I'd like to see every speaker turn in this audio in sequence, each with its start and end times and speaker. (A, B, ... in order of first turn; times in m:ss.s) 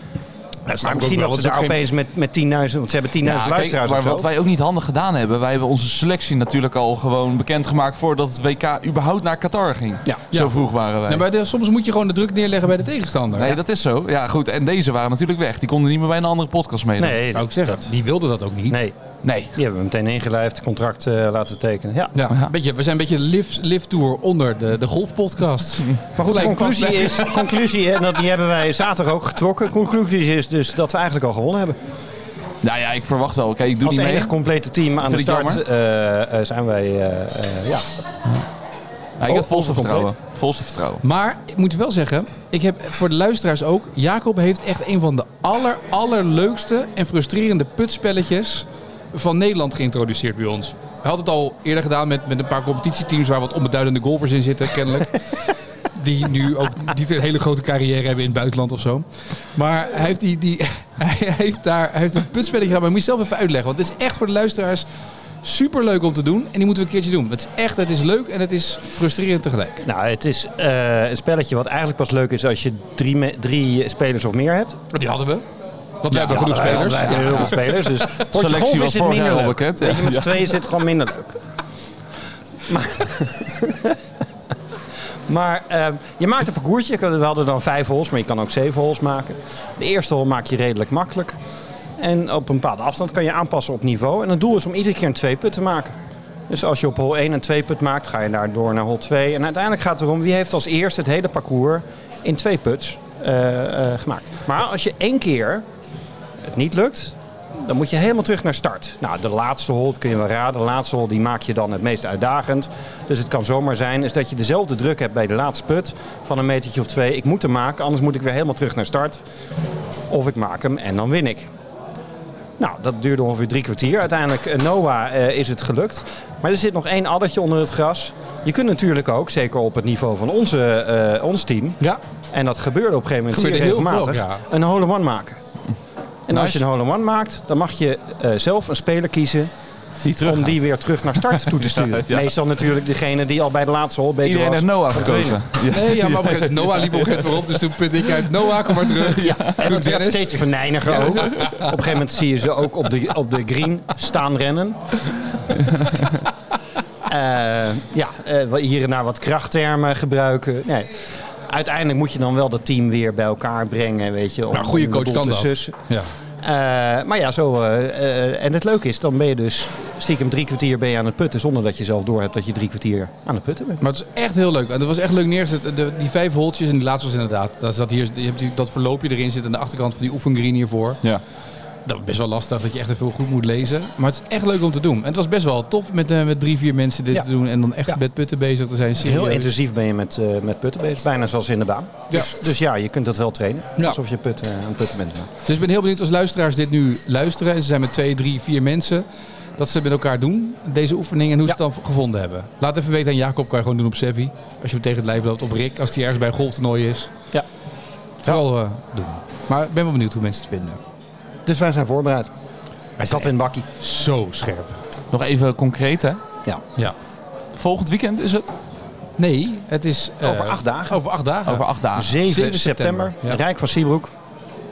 0:00.7-0:01.8 A
0:00.8-0:04.3 B
0:03.2-0:11.2 C
0:10.1-0:13.6 A
0:13.4-0:17.2 C
0:17.0-0:17.9 B
0:17.3-0:18.8 A
0:18.7-0:19.0 B
0:19.2-0:19.5 C
0:19.5-0:22.1 B
0:22.1-0:27.5 A
0:26.2-0:31.8 B
0:32.6-0:34.3 C
0:33.8-0:37.9 B
0:35.0-0:35.6 C
0:39.2-0:41.0 C
0:39.2-0:40.1 B
0:41.0-1:04.8 A
1:05.4-1:09.8 A
1:09.8-1:14.8 B
1:14.9-1:15.4 A
1:16.0-1:18.2 A
1:16.1-1:21.4 B
1:16.1-1:17.6 C
1:18.1-1:20.5 C
1:22.6-1:24.0 B
1:25.3-1:31.4 B
1:32.0-1:36.0 B
1:36.5-1:45.6 B
1:46.4-1:59.2 B
2:00.1-2:01.5 B
2:02.6-2:11.8 B
2:12.3-2:15.4 B
2:13.3-2:14.4 A
2:16.3-2:19.5 B
2:16.3-2:16.6 C
2:20.0-2:22.3 C
2:20.2-2:25.4 B
2:24.2-2:29.6 C
2:25.7-2:31.7 A
2:29.5-2:34.9 B
2:35.7-2:36.1 C
2:37.0-2:45.8 B
2:44.5-2:46.1 A
2:46.4-2:53.8 B
2:53.8-3:01.0 A
3:01.8-3:09.5 A
3:09.0-3:15.3 B
3:15.4-3:19.0 A
3:19.6-3:27.1 A
3:28.2-3:30.8 A
3:31.4-3:32.3 B
3:33.0-3:34.8 A
3:33.1-3:33.6 B
3:35.1-3:36.2 C
3:37.5-3:38.5 C
3:39.2-3:43.4 A
3:40.2-3:41.0 B
3:41.4-3:42.1 C
3:42.0-3:44.1 B